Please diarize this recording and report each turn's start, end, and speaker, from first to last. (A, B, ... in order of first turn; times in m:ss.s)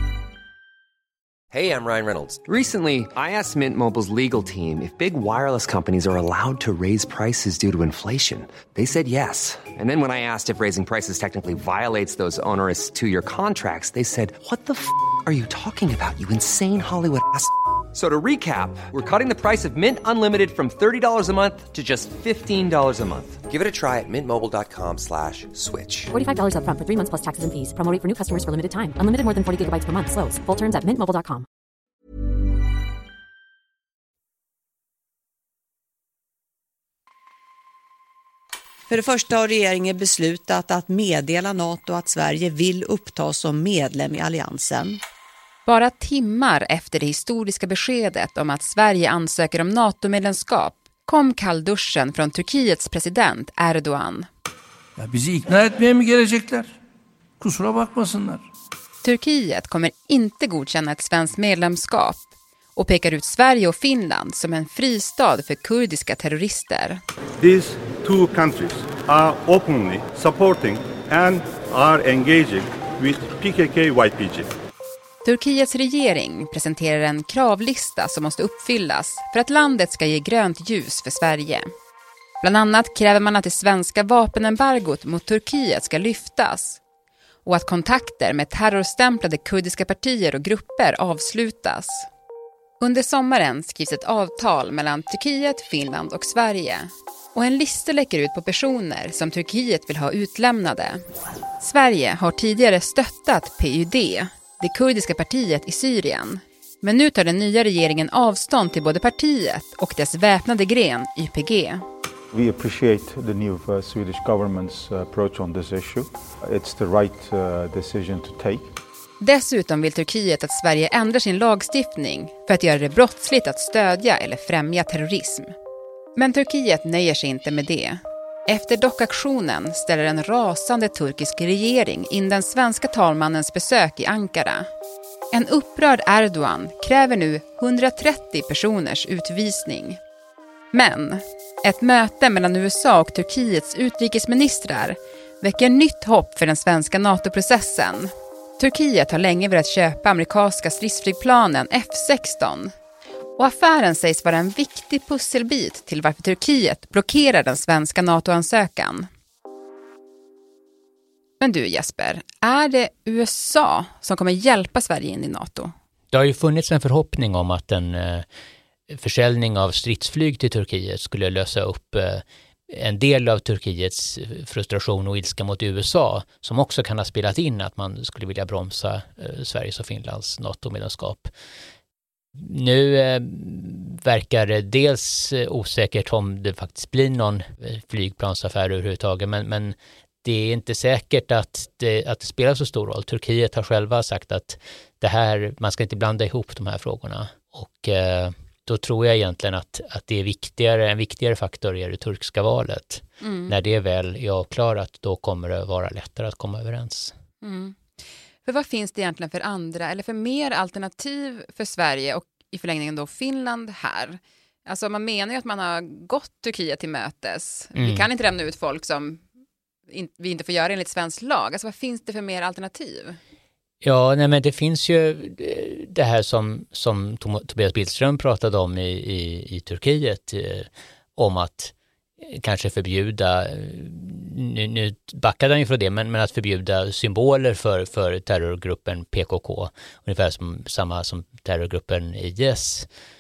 0:01.5-0:26.1 A
0:26.1-0:31.4 B
0:38.9-0:45.0 C
0:45.6-0:54.3 D
0:55.0-0:56.7 E
0:57.4-0:58.4 E
0:59.0-1:07.0 D
1:07.4-1:14.5 F
1:15.2-1:21.7 D
1:22.4-1:26.8 D
1:27.4-1:32.1 D
1:32.8-1:41.0 D
1:41.6-1:51.8 D
1:52.3-1:58.7 G
1:59.2-2:05.5 D
2:06.2-2:14.7 D
2:15.3-2:20.0 D
2:20.7-2:32.7 D
2:33.4-2:39.1 D
2:41.4-2:45.7 D
2:46.1-2:48.2 H
2:48.9-3:01.3 H
3:02.4-3:27.1 H
3:23.2-3:23.5 D
3:27.4-3:27.8 D
3:28.4-3:39.2 D
3:37.8-3:38.1 H
3:39.9-3:43.2 D
3:43.8-4:02.9 H